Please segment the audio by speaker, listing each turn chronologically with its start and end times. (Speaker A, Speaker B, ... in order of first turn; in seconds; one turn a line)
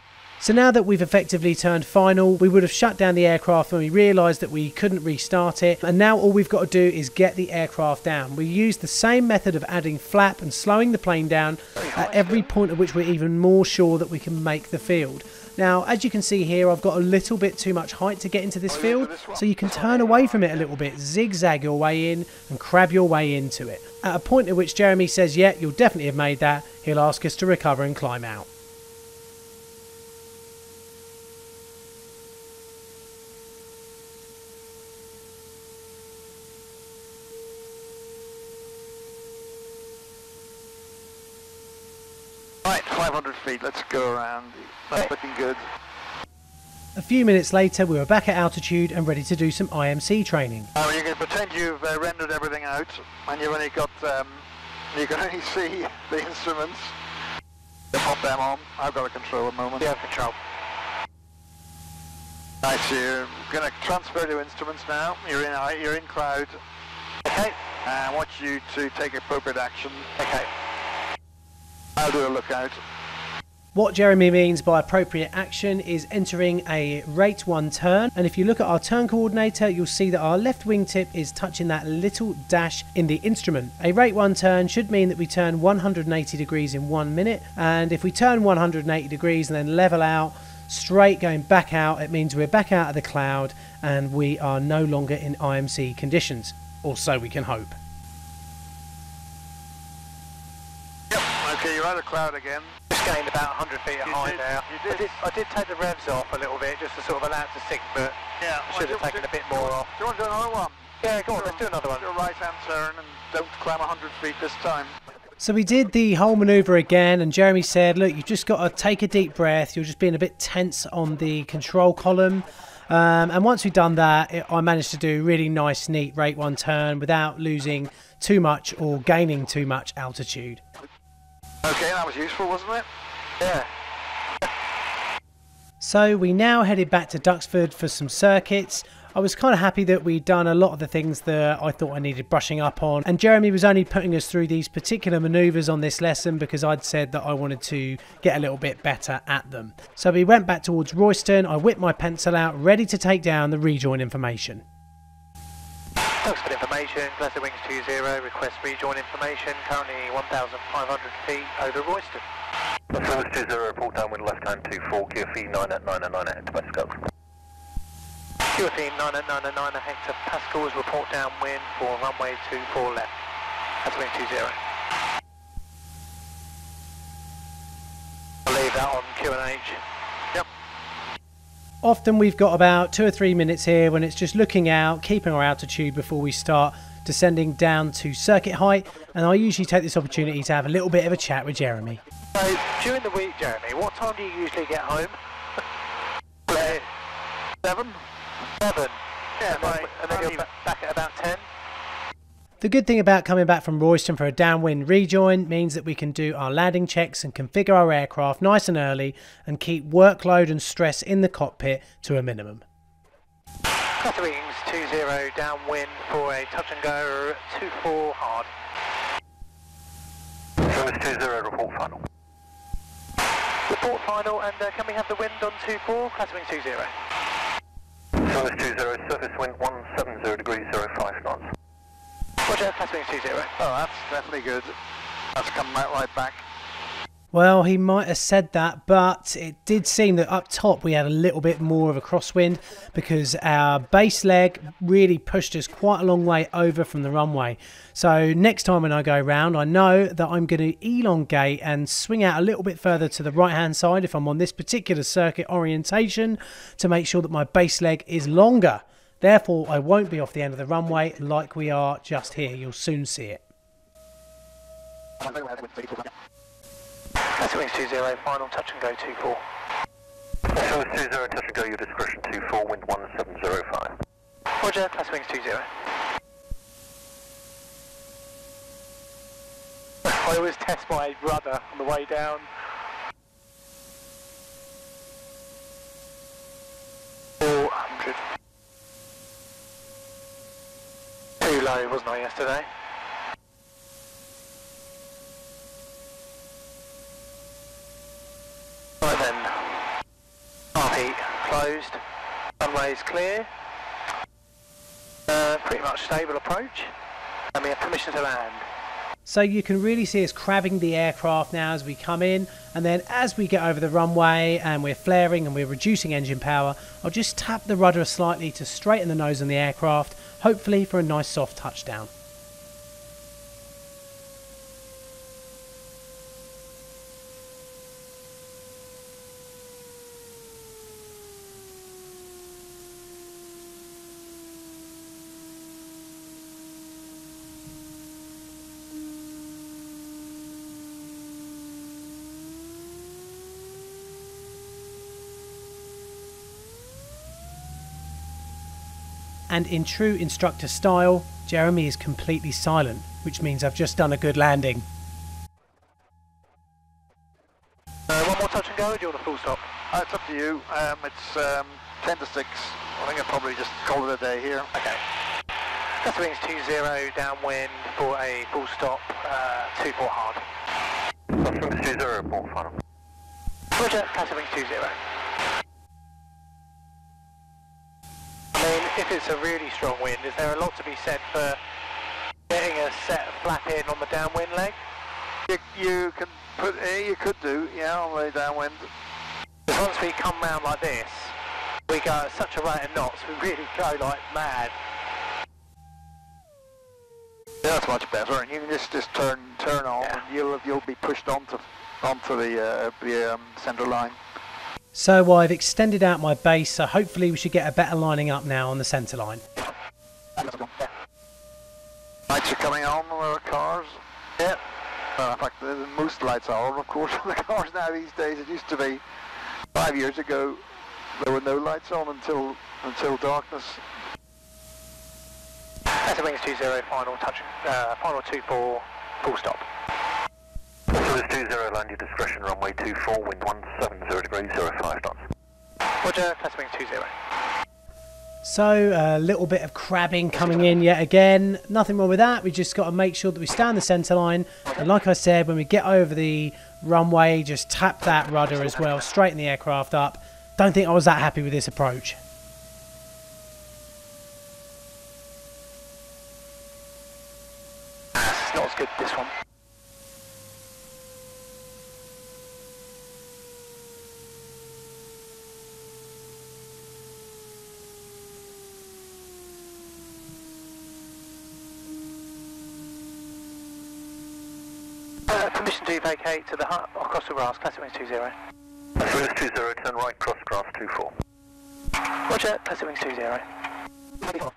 Speaker A: 0.4-28.5
Speaker B: 11.8-12.5
Speaker C: 18.7-20.7
Speaker C: 42.6-45.6
Speaker A: 46.9-50.7
Speaker C: 50.7-56.9
Speaker C: 57.9-59.9
Speaker B: 59.8-60.4
Speaker C: 62.6-66.6
Speaker B: 67.2-67.6
Speaker C: 67.8-70.1
Speaker B: 70.2-70.5
Speaker C: 72.0-72.8
Speaker A: 73.7-97.8
Speaker C: 101.1-102.7
Speaker B: 102.9-108.2
Speaker C: 104.0-105.2
Speaker C: 108.4-115.0
Speaker B: 108.7-109.9
Speaker B: 111.0-112.0
Speaker A: 115.4-130.6
Speaker C: 131.6-132.8
Speaker B: 133.4-133.7
Speaker A: 135.8-154.6
Speaker B: 156.2-162.2
Speaker D: 162.9-167.0
Speaker B: 168.5-173.1
Speaker B: 173.8-174.6
Speaker B: 178.4-179.8
Speaker A: 181.8-192.0
Speaker B: 192.3-195.2
Speaker B: 196.5-196.8
Speaker C: 197.6-198.0
Speaker B: 198.6-201.4
Speaker C: 199.4-200.4
Speaker A: 202.6-212.6
Speaker B: 214.0-218.5
Speaker D: 220.6-222.0
Speaker B: 223.7-226.9
Speaker D: 228.2-231.5
Speaker B: 232.4-233.5
Speaker C: 233.6-234.7
Speaker C: 235.3-236.4
Speaker A: 237.3-263.4
Speaker C: 265.2-266.1
Speaker B: 267.3-269.4
Speaker D: 270.5-273.9
Speaker B: 274.6-275.7
Speaker B: 280.0-282.5
Speaker B: 287.4-288.2
Speaker B: 291.4-292.7
Speaker B: 299.0-299.8
Speaker B: 300.7-302.0
Speaker B: 302.6-303.5
Speaker B: 305.3-306.9
Speaker B: 307.5-308.6
Speaker A: 309.2-322.1
Speaker A: 349.5-354.9
Speaker B: 358.1-359.6
Speaker C: 359.9-364.7
Speaker B: 364.7-365.0
Speaker B: 366.0-370.4
Speaker D: 371.3-372.8
Speaker B: 373.7-375.0
Speaker B: 378.5-381.6
Speaker B: 382.5-384.8
Speaker C: 385.5-388.9
Speaker B: 389.7-391.3
Speaker B: 391.9-394.7
Speaker C: 397.6-404.2
Speaker A: 404.9-409.4
Speaker C: 410.4-410.7
Speaker C: 412.3-414.6
Speaker C: 415.2-419.0
Speaker C: 419.7-420.6
Speaker C: 421.2-423.8
Speaker B: 426.0-429.6
Speaker D: 430.9-435.2
Speaker B: 436.0-437.1
Speaker A: 438.4-452.2
Speaker B: 458.1-459.3
Speaker B: 475.3-478.4
Speaker D: 479.0-481.1
Speaker B: 482.3-483.4